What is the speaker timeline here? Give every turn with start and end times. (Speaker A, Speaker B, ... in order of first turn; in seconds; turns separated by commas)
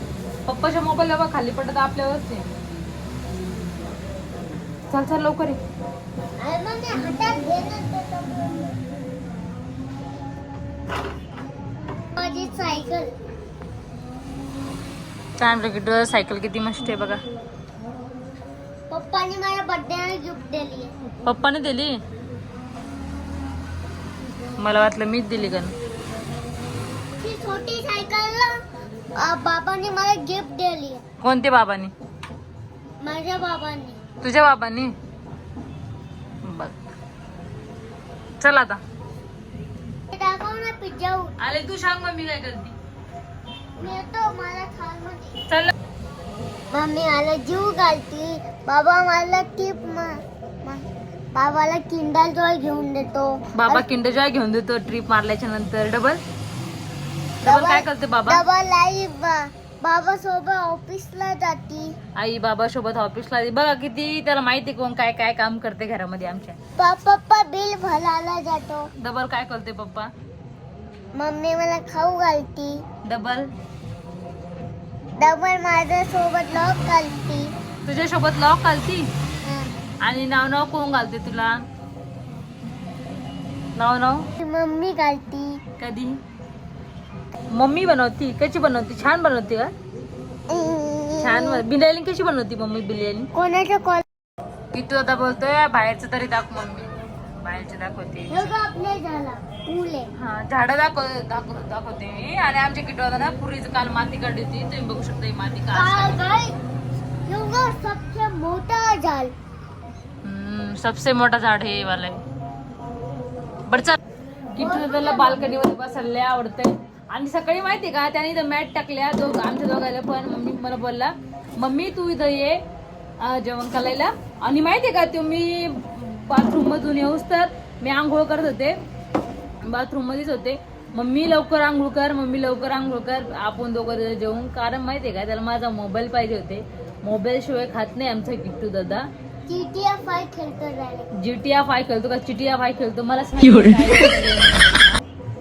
Speaker A: 0.5-2.5, Speaker A: 4.9-5.6, Speaker B: 6.4-8.7, Speaker B: 12.2-13.1, Speaker A: 15.4-17.2, Speaker B: 18.9-20.9, Speaker A: 21.2-22.0, Speaker A: 24.6-25.7, Speaker B: 27.2-28.6, Speaker B: 29.2-31.0, Speaker A: 31.2-31.9, Speaker B: 33.0-34.0, Speaker A: 34.2-34.9, Speaker A: 36.4-36.8, Speaker A: 38.4-38.8, Speaker B: 40.1-41.3, Speaker A: 41.4-42.7, Speaker B: 43.8-45.3, Speaker B: 46.7-54.0, Speaker A: 53.5-56.2, Speaker A: 57.4-58.4, Speaker B: 57.4-61.9, Speaker A: 62.1-66.6, Speaker B: 66.8-68.9, Speaker A: 69.0-70.1, Speaker B: 71.1-72.8, Speaker A: 73.0-73.5, Speaker B: 75.2-77.5, Speaker A: 77.8-79.1, Speaker B: 79.4-79.7, Speaker A: 80.0-81.5, Speaker A: 83.8-84.2, Speaker B: 84.4-85.6, Speaker A: 85.8-86.2, Speaker A: 87.5-89.7, Speaker B: 90.5-91.6, Speaker A: 91.2-93.3, Speaker B: 93.3-94.0, Speaker A: 94.7-96.9, Speaker A: 97.4-98.5, Speaker B: 98.3-100.1, Speaker A: 100.2-106.2, Speaker B: 105.7-106.5, Speaker B: 107.2-109.3, Speaker A: 110.2-112.2, Speaker A: 113.7-114.0, Speaker A: 114.5-122.6, Speaker B: 114.6-115.6, Speaker A: 123.2-128.8, Speaker A: 129.6-139.1, Speaker B: 139.5-141.1, Speaker A: 141.2-145.0